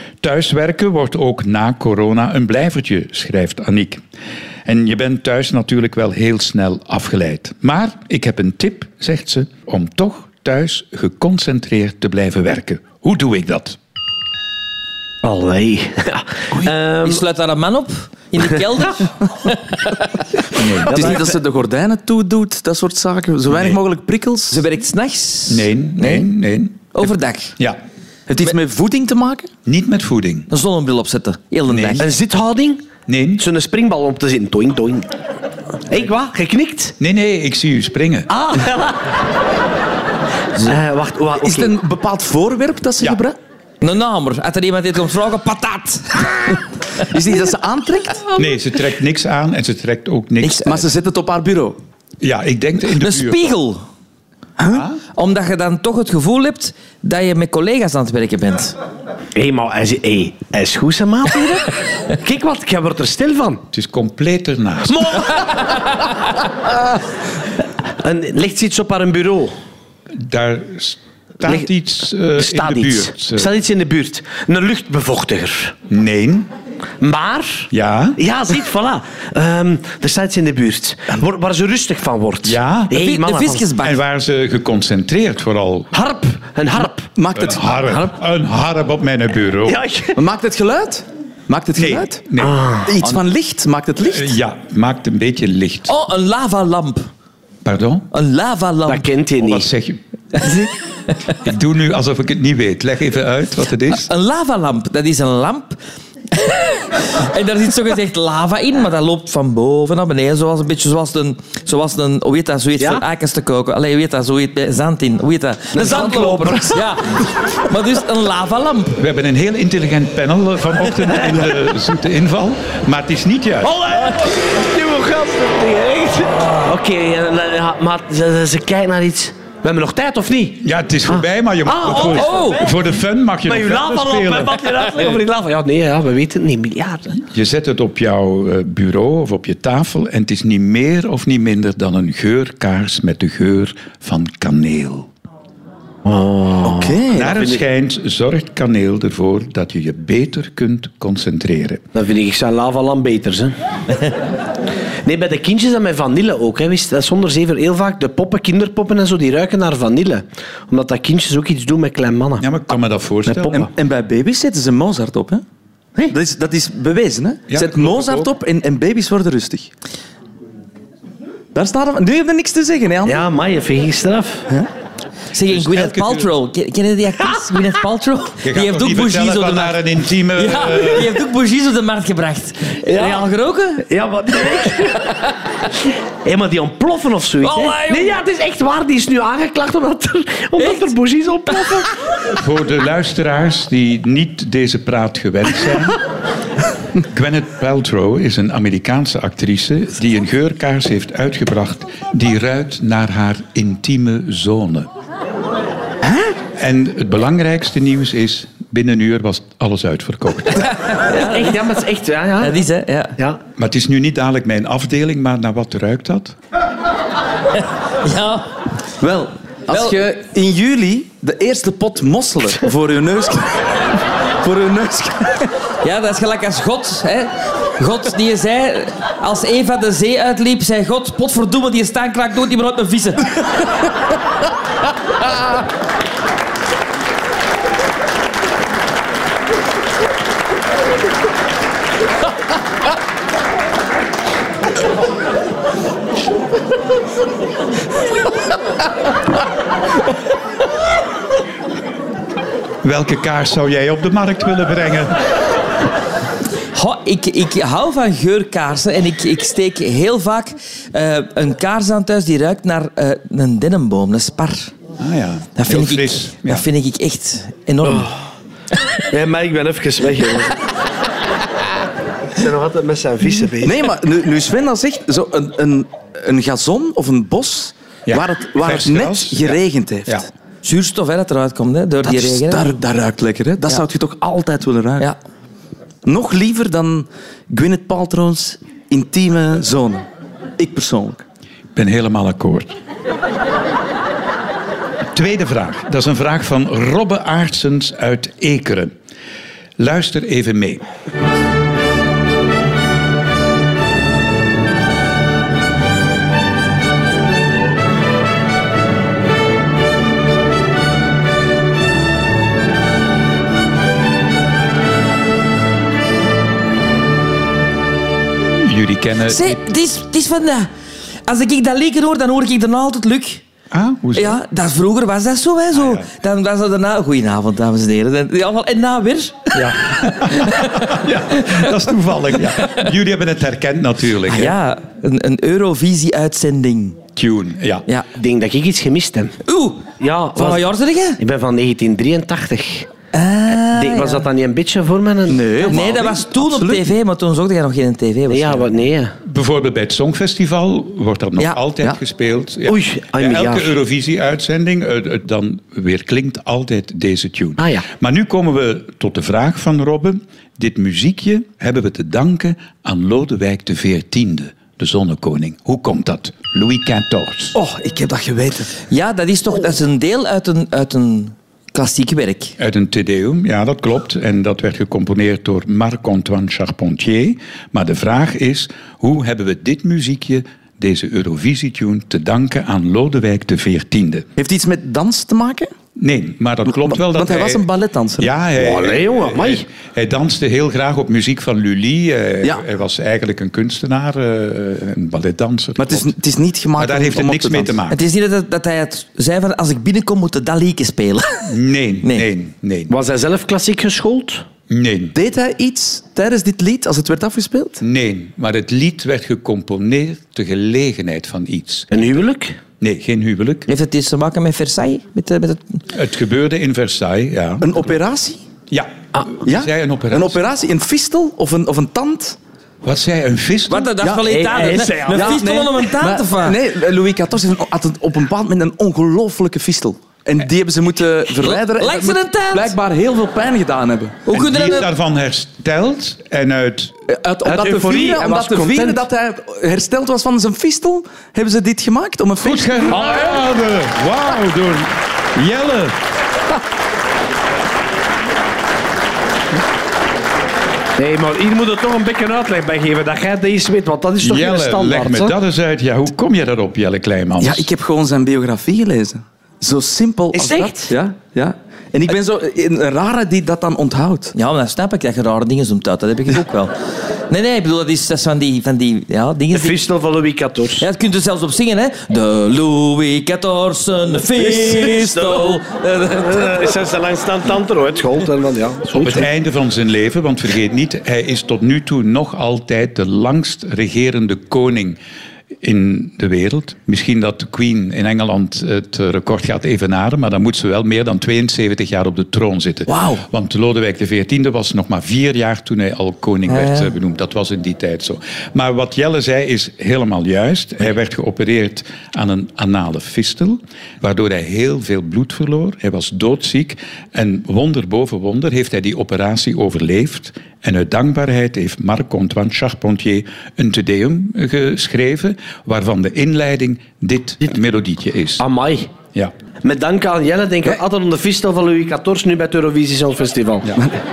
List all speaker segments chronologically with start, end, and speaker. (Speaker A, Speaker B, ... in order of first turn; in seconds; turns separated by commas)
Speaker A: 0.2-4.0, Speaker A: 4.7-13.8, Speaker B: 15.2-17.2, Speaker C: 17.0-20.1, Speaker A: 20.5-21.1, Speaker D: 20.9-24.6, Speaker B: 20.9-21.3, Speaker C: 24.5-26.3, Speaker A: 25.5-27.8, Speaker C: 26.9-27.6, Speaker D: 28.3-29.5, Speaker A: 29.6-30.5, Speaker C: 30.5-32.1, Speaker A: 31.6-32.0, Speaker B: 32.0-35.1, Speaker A: 33.1-33.4, Speaker B: 35.9-37.0, Speaker A: 37.0-38.3, Speaker B: 38.3-39.1, Speaker B: 40.5-41.7, Speaker D: 41.4-43.4, Speaker C: 43.8-46.6, Speaker D: 47.0-48.2, Speaker A: 48.4-50.7, Speaker C: 50.4-50.8, Speaker D: 50.6-51.8, Speaker A: 52.2-53.4, Speaker C: 53.0-53.8, Speaker D: 54.6-54.8, Speaker A: 54.6-55.0, Speaker C: 55.1-58.7, Speaker B: 59.4-63.6, Speaker A: 63.7-65.0, Speaker B: 64.9-66.1, Speaker B: 68.0-69.5, Speaker A: 70.2-73.5, Speaker B: 72.3-75.7, Speaker A: 75.9-76.5, Speaker B: 77.0-83.7, Speaker A: 77.7-78.2, Speaker A: 82.4-83.0, Speaker C: 82.9-84.0, Speaker A: 83.8-86.0, Speaker B: 86.1-87.1, Speaker D: 87.2-88.1, Speaker A: 87.3-89.8, Speaker B: 89.6-90.2, Speaker D: 90.1-92.2, Speaker A: 91.8-92.9, Speaker B: 92.4-92.9, Speaker D: 92.8-94.4, Speaker A: 94.1-95.9, Speaker C: 95.9-97.1, Speaker A: 97.6-98.1, Speaker C: 98.1-99.1, Speaker B: 98.9-99.7, Speaker A: 99.4-100.7, Speaker C: 100.4-100.7, Speaker A: 101.4-104.1, Speaker C: 104.0-105.8, Speaker C: 106.3-119.0, Speaker B: 115.7-116.8, Speaker A: 119.0-123.7, Speaker B: 123.6-132.7, Speaker A: 130.6-134.7, Speaker C: 132.1-132.6, Speaker B: 133.4-137.2, Speaker A: 137.3-145.1, Speaker B: 146.0-147.6, Speaker D: 146.6-147.4, Speaker A: 147.1-151.8, Speaker B: 151.9-153.5, Speaker B: 155.0-162.4, Speaker A: 162.4-163.7, Speaker B: 163.3-163.7, Speaker D: 163.5-165.4, Speaker D: 166.1-169.7, Speaker A: 167.5-168.3, Speaker D: 171.5-173.3, Speaker B: 173.1-174.4, Speaker C: 175.3-179.8, Speaker A: 175.4-176.3, Speaker A: 178.4-181.1, Speaker C: 180.3-184.6, Speaker B: 182.9-183.3, Speaker B: 183.9-185.1, Speaker B: 186.2-191.9, Speaker C: 187.4-188.2, Speaker C: 190.6-190.9, Speaker A: 192.3-196.0, Speaker A: 197.1-204.9, Speaker A: 206.6-210.7, Speaker C: 210.9-211.4, Speaker B: 211.1-212.6, Speaker C: 212.4-213.1, Speaker A: 213.6-216.3, Speaker C: 218.0-218.5, Speaker D: 219.0-223.8, Speaker C: 219.7-220.0, Speaker D: 224.4-225.5, Speaker C: 225.8-233.4, Speaker A: 252.8-255.1, Speaker C: 256.7-264.7, Speaker A: 265.0-266.6, Speaker C: 265.6-268.1, Speaker B: 267.8-268.1, Speaker B: 269.1-270.6, Speaker B: 272.3-273.9, Speaker D: 273.6-280.2, Speaker A: 278.1-279.6, Speaker C: 280.6-282.7, Speaker D: 282.0-285.1, Speaker D: 286.0-290.0, Speaker D: 290.6-291.2, Speaker A: 291.8-292.8, Speaker A: 295.1-298.9, Speaker A: 299.8-300.9, Speaker A: 318.6-319.6, Speaker C: 319.3-320.7, Speaker C: 321.3-323.4, Speaker A: 323.7-324.4, Speaker C: 324.1-331.6, Speaker A: 325.7-326.1, Speaker A: 329.5-334.6, Speaker C: 332.4-332.8, Speaker C: 334.3-337.0, Speaker A: 337.1-337.8, Speaker B: 338.1-339.4, Speaker C: 339.4-339.8, Speaker B: 340.0-342.9, Speaker C: 340.4-341.2, Speaker C: 343.1-344.3, Speaker B: 343.6-346.1, Speaker D: 345.3-346.9, Speaker C: 345.7-348.7, Speaker B: 348.3-349.1, Speaker A: 349.2-367.6, Speaker B: 352.6-353.8, Speaker B: 357.6-357.9, Speaker D: 367.5-368.8, Speaker C: 368.9-372.5, Speaker A: 372.6-384.2, Speaker D: 384.4-385.7, Speaker A: 386.0-387.6, Speaker D: 386.7-388.3, Speaker A: 388.2-396.1, Speaker B: 388.6-389.6, Speaker D: 395.8-397.8, Speaker A: 396.8-398.0, Speaker C: 397.9-401.5, Speaker A: 401.4-402.9, Speaker B: 402.9-404.4, Speaker A: 404.7-405.1, Speaker D: 405.1-407.8, Speaker A: 407.8-411.9, Speaker B: 411.9-412.6, Speaker A: 412.8-413.7, Speaker C: 413.7-415.8, Speaker A: 415.9-417.7, Speaker D: 417.6-418.4, Speaker A: 418.7-420.4, Speaker D: 419.4-422.4, Speaker A: 422.8-423.9, Speaker C: 423.7-426.6, Speaker D: 424.0-434.8, Speaker B: 424.2-425.6, Speaker C: 431.4-432.7, Speaker C: 434.3-434.9, Speaker A: 434.3-436.9, Speaker D: 437.1-443.0, Speaker B: 437.4-439.0, Speaker A: 442.4-445.9, Speaker B: 442.9-443.4, Speaker B: 451.0-455.4, Speaker A: 454.2-457.6, Speaker D: 457.4-464.3, Speaker C: 464.3-466.7, Speaker C: 467.3-469.8, Speaker B: 469.5-470.9, Speaker C: 470.8-476.7, Speaker B: 474.2-479.3, Speaker A: 479.0-485.0, Speaker A: 485.6-518.4, Speaker C: 492.9-493.2, Speaker C: 496.5-496.9, Speaker B: 518.4-518.9, Speaker B: 519.6-523.8